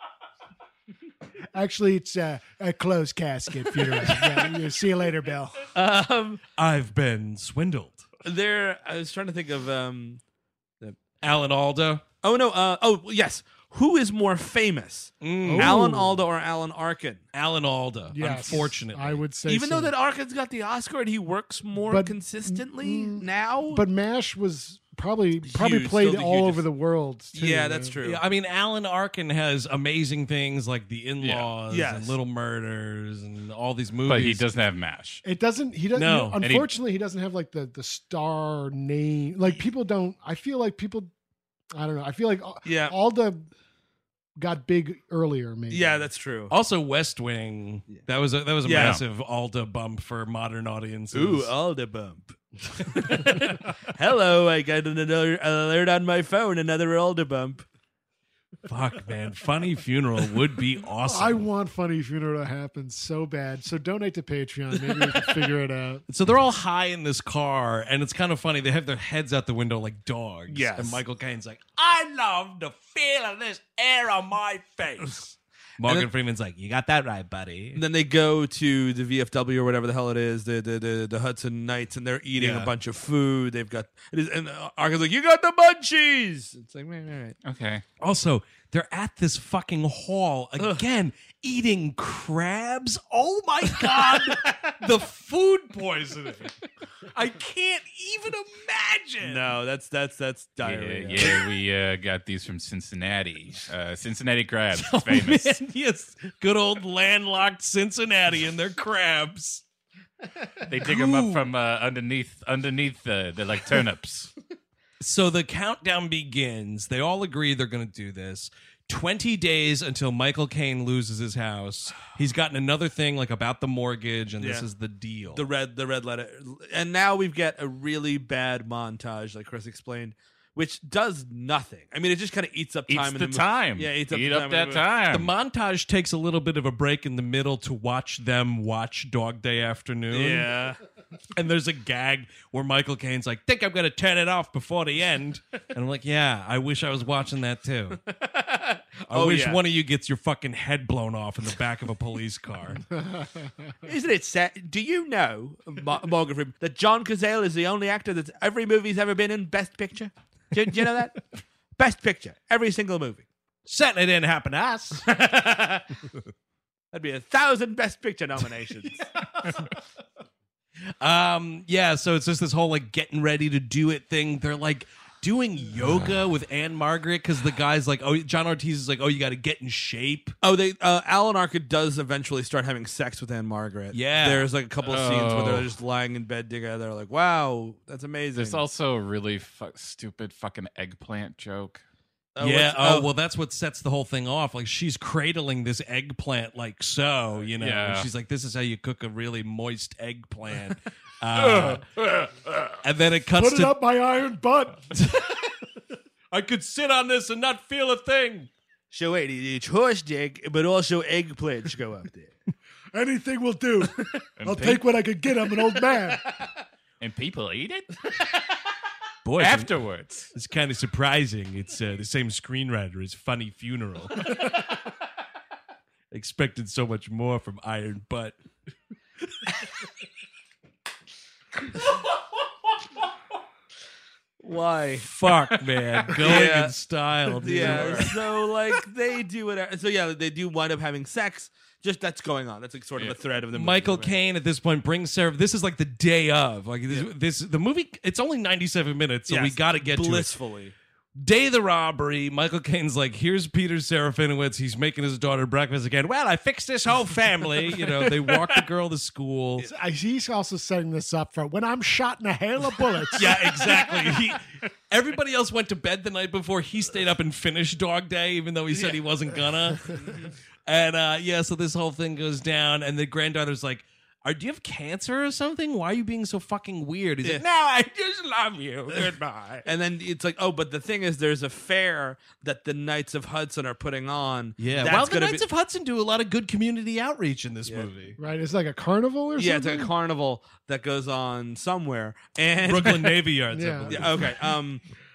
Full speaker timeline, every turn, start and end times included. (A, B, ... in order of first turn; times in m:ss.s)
0:01.5-0:05.6 A
0:05.7-0:06.4 B
0:06.6-0:08.0 C
0:08.2-0:10.2 B
0:11.2-0:12.0 C
0:12.2-0:17.2 B
0:15.2-0:15.8 C
0:15.4-0:16.2 A
0:17.3-0:19.3 C
0:18.1-0:19.9 A
0:19.4-0:23.8 B
0:21.8-0:28.0 A
0:25.4-0:26.6 B
0:27.3-0:28.2 B
0:28.0-0:34.5 C
0:31.2-0:31.5 D
0:31.7-0:32.2 B
0:34.0-0:35.2 D
0:35.2-0:41.1 A
0:35.9-0:36.4 C
0:36.4-0:36.7 D
0:41.7-0:43.5 A
0:42.6-0:42.9 B
0:44.4-0:46.0 A
0:45.7-0:46.5 B
0:46.5-0:51.5 C
0:48.6-0:49.0 B
0:48.7-0:49.0 D
0:51.1-0:57.6 B
0:58.6-1:01.4 C
1:01.0-1:06.0 A
1:06.1-1:17.8 C
1:10.5-1:11.0 B
1:17.7-1:27.4 B
1:22.4-1:22.7 C
1:27.4-1:27.8 D
1:28.0-1:36.5 C
1:30.6-1:30.8 B
1:33.8-1:34.1 B
1:37.1-1:39.5 C
1:39.2-1:41.4 B
1:40.6-1:45.6 D
1:41.2-1:41.4 C
1:44.7-1:49.6 C
1:50.6-1:54.3 D
1:50.8-1:51.5 C
1:55.0-2:05.4 C
2:04.4-2:04.7 B
2:05.3-2:15.0 B
2:12.9-2:15.3 D
2:15.1-2:20.5 C
2:20.1-2:20.8 B
2:21.4-2:28.0 C
2:28.0-2:29.6 B
2:29.1-2:32.8 C
2:33.8-2:43.3 B
2:43.7-2:45.1 C
2:45.0-2:45.8 B
2:46.9-2:49.0 B
2:51.0-3:00.3 C
3:00.4-3:08.6 B
3:03.9-3:04.5 C
3:04.8-3:05.7 D
3:08.3-3:11.8 D
3:12.4-3:13.1 B
3:12.4-3:21.9 C
3:17.6-3:18.1 D
3:21.3-3:22.8 D
3:22.8-3:23.8 C
3:23.3-3:24.9 A
3:24.9-3:25.4 C
3:26.3-3:28.5 C
3:28.9-3:32.3 B
3:32.9-3:36.2 A
3:34.4-3:34.9 D
3:37.0-3:38.0 D
3:39.2-3:39.7 C
3:39.4-3:40.3 D
3:40.3-3:44.5 C
3:46.1-3:48.4 C
3:54.4-3:55.1 B
3:55.0-3:58.2 C
3:56.1-3:56.7 B
3:57.4-4:04.2 B
3:57.5-3:58.1 D
4:03.5-4:10.3 C
4:09.3-4:10.7 B
4:11.2-4:19.7 C
4:19.6-4:23.5 A
4:23.1-4:30.0 C
4:28.7-4:29.0 B
4:29.8-4:30.3 B
4:30.6-4:39.6 C
4:38.9-4:45.4 B
4:44.6-4:48.2 C
4:47.6-4:47.9 B
4:48.2-4:49.9 A
4:49.4-4:53.2 B
4:52.6-4:54.4 C
4:53.5-4:54.1 A
4:53.9-4:54.8 B